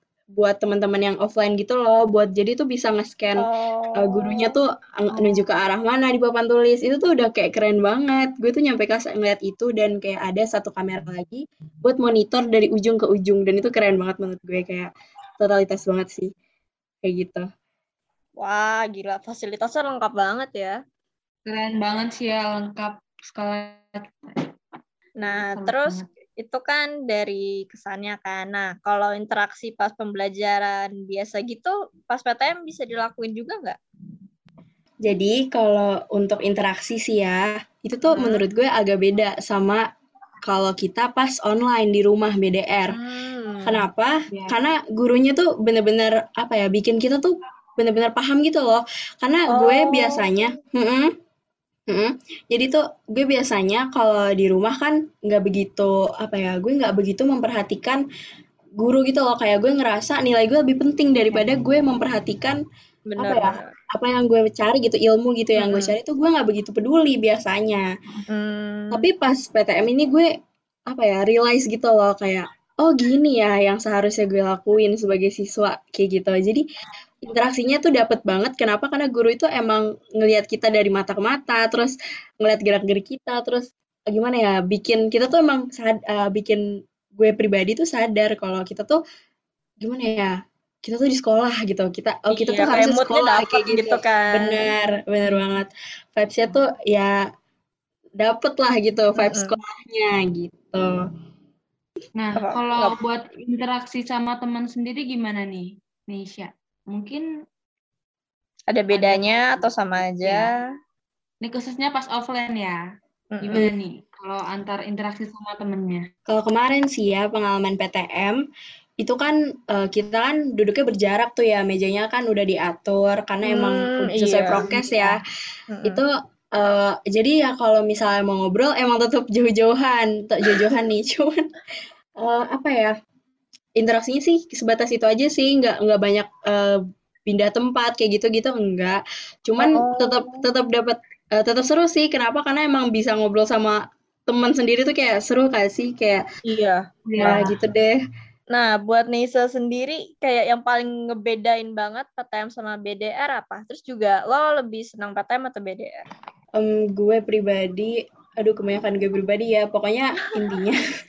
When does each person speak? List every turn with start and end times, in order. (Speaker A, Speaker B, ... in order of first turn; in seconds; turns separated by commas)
Speaker A: 0.3-16.3, Speaker B: 3.4-4.5, Speaker C: 5.1-5.4, Speaker A: 17.0-17.4, Speaker B: 18.4-20.8, Speaker C: 21.4-24.3, Speaker B: 25.2-33.8, Speaker C: 25.3-26.1, Speaker A: 35.0-39.8, Speaker C: 38.1-38.4, Speaker A: 40.4-43.0, Speaker B: 42.9-43.8, Speaker A: 43.6-51.1, Speaker C: 44.3-44.6, Speaker B: 49.5-50.3, Speaker A: 51.9-58.0, Speaker A: 58.8-62.6, Speaker B: 63.1-63.6, Speaker A: 63.2-67.8, Speaker B: 65.6-66.0, Speaker B: 68.3-69.0, Speaker A: 68.9-70.3, Speaker A: 70.9-76.6, Speaker A: 77.2-86.6, Speaker A: 87.1-89.0, Speaker A: 89.8-90.3, Speaker A: 90.8-97.2, Speaker B: 92.3-94.7, Speaker C: 95.2-95.6, Speaker A: 98.2-101.0, Speaker B: 99.2-99.6, Speaker C: 102.2-107.2, Speaker B: 102.4-103.0, Speaker B: 108.7-110.5, Speaker C: 108.9-110.5, Speaker C: 111.4-112.8, Speaker B: 113.3-113.7, Speaker C: 113.4-116.0, Speaker A: 116.3-118.4, Speaker A: 119.0-125.2, Speaker B: 123.4-125.1, Speaker B: 125.7-126.0, Speaker A: 125.8-131.4, Speaker A: 132.2-132.9, Speaker A: 133.8-146.2, Speaker B: 139.6-140.4, Speaker B: 146.4-147.5, Speaker C: 147.1-147.6, Speaker A: 147.2-148.0, Speaker B: 148.5-156.0, Speaker A: 156.5-160.8